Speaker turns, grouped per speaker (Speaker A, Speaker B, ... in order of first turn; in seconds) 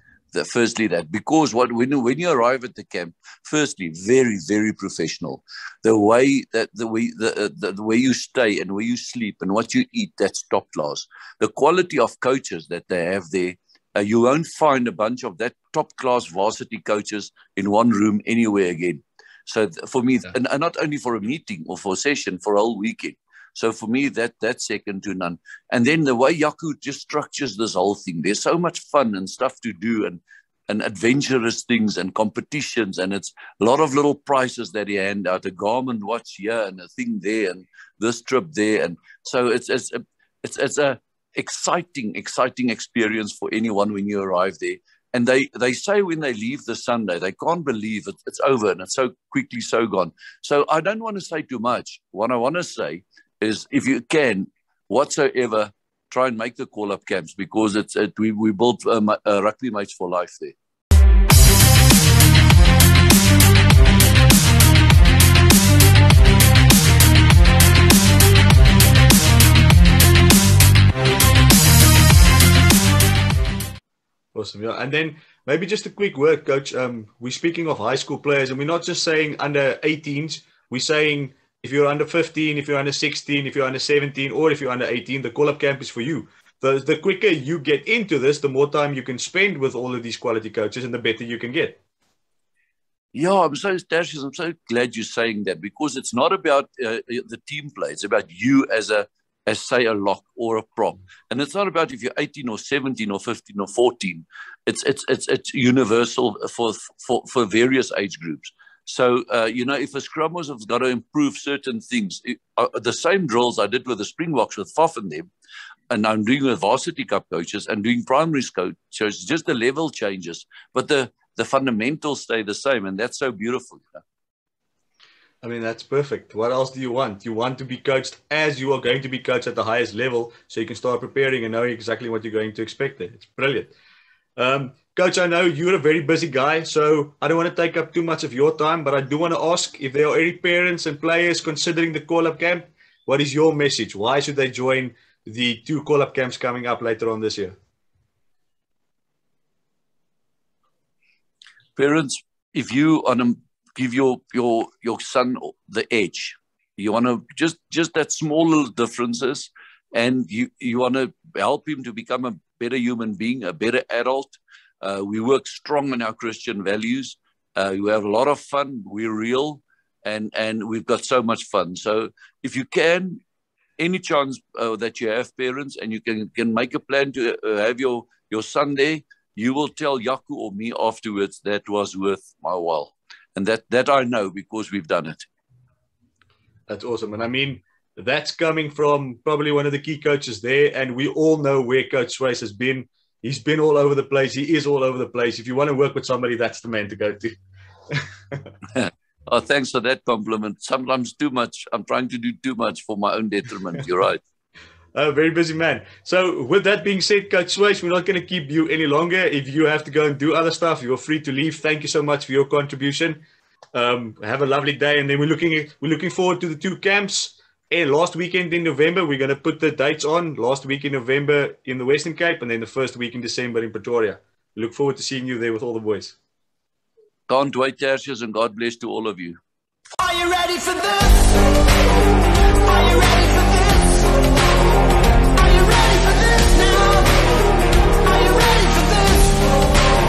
Speaker A: 0.3-60.5, 93.1-115.3, 115.9-124.0, 151.8-173.2, 173.8-185.2, 198.8-204.2, 227.3-229.4
Speaker B: 74.3-91.8, 125.4-133.7, 134.3-147.6, 186.7-197.4, 197.9-198.5, 204.9-213.2, 213.7-226.2
Speaker C: 229.9-231.4, 232.6-234.1, 235.3-237.2, 238.0-239.4